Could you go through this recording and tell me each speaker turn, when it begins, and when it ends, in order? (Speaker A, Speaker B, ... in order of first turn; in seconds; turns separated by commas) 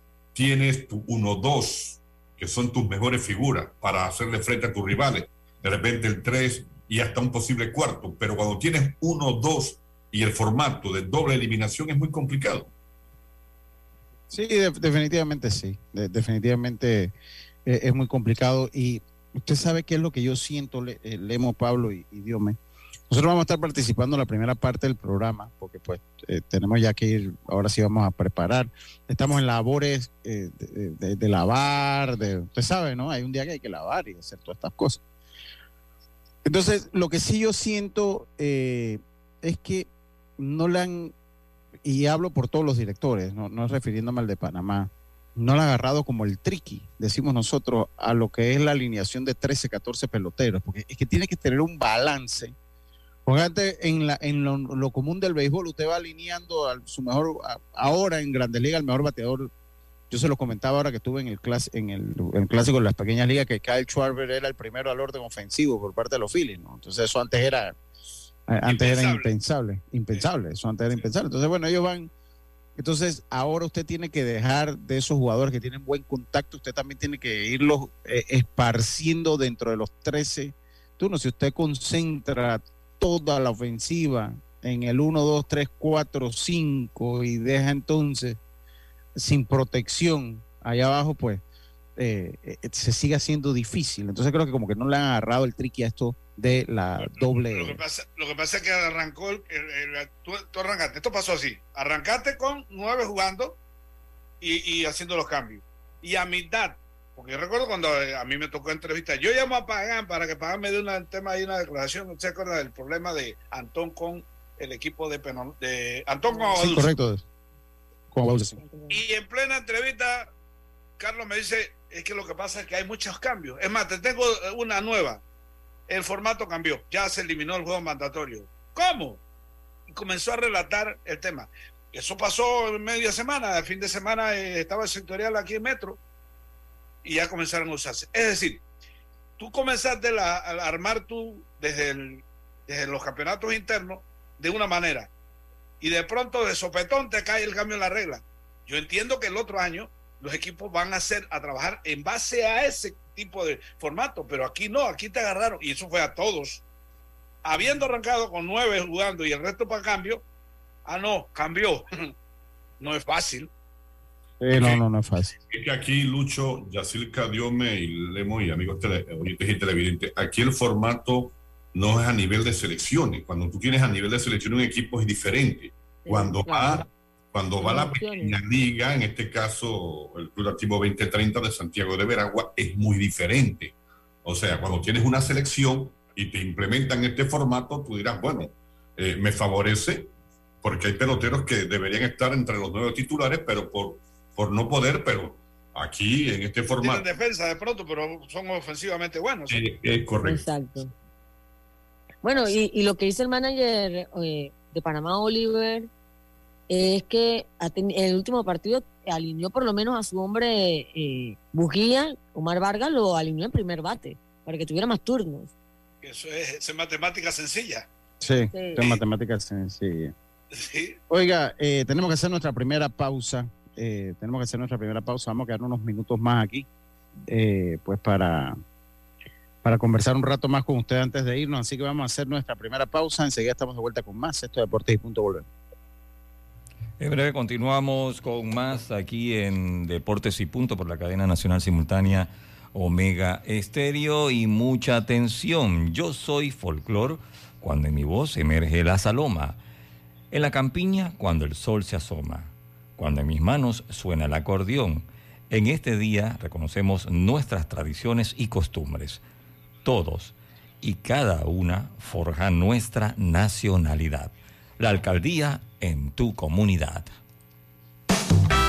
Speaker A: 0.3-12.7, Speaker B: 14.3-17.1, Speaker B: 17.6-22.6, Speaker B: 23.1-35.0, Speaker B: 36.4-41.1, Speaker B: 41.9-52.5, Speaker B: 53.3-59.5, Speaker B: 60.1-67.8, Speaker B: 68.5-72.1, Speaker C: 68.6-69.3, Speaker B: 72.8-88.4, Speaker B: 89.2-91.4, Speaker B: 92.0-97.8, Speaker C: 97.0-103.6, Speaker C: 104.4-116.9, Speaker D: 116.3-116.6, Speaker B: 116.6-117.2, Speaker B: 118.1-118.6, Speaker D: 118.6-119.0, Speaker C: 118.9-120.3, Speaker C: 121.0-125.2, Speaker C: 125.9-129.2, Speaker C: 129.9-136.0, Speaker C: 137.0-138.6, Speaker C: 139.4-145.1, Speaker C: 145.8-156.6, Speaker C: 157.4-160.2, Speaker C: 160.9-162.1, Speaker C: 162.8-163.5, Speaker B: 164.4-165.3, Speaker A: 164.6-164.8, Speaker A: 165.5-183.7, Speaker D: 176.1-176.8, Speaker D: 177.6-178.4, Speaker A: 184.2-190.1, Speaker A: 190.6-197.1, Speaker C: 196.8-199.6, Speaker A: 199.5-200.4, Speaker D: 200.2-200.9, Speaker D: 202.2-205.9, Speaker D: 206.7-215.5, Speaker C: 216.0-217.9, Speaker B: 218.2-220.1, Speaker D: 218.5-218.8, Speaker C: 220.5-221.0, Speaker B: 221.1-226.7, Speaker B: 227.3-228.6, Speaker B: 229.6-235.5, Speaker E: 237.0-249.6, Speaker E: 250.3-259.2, Speaker E: 259.8-267.1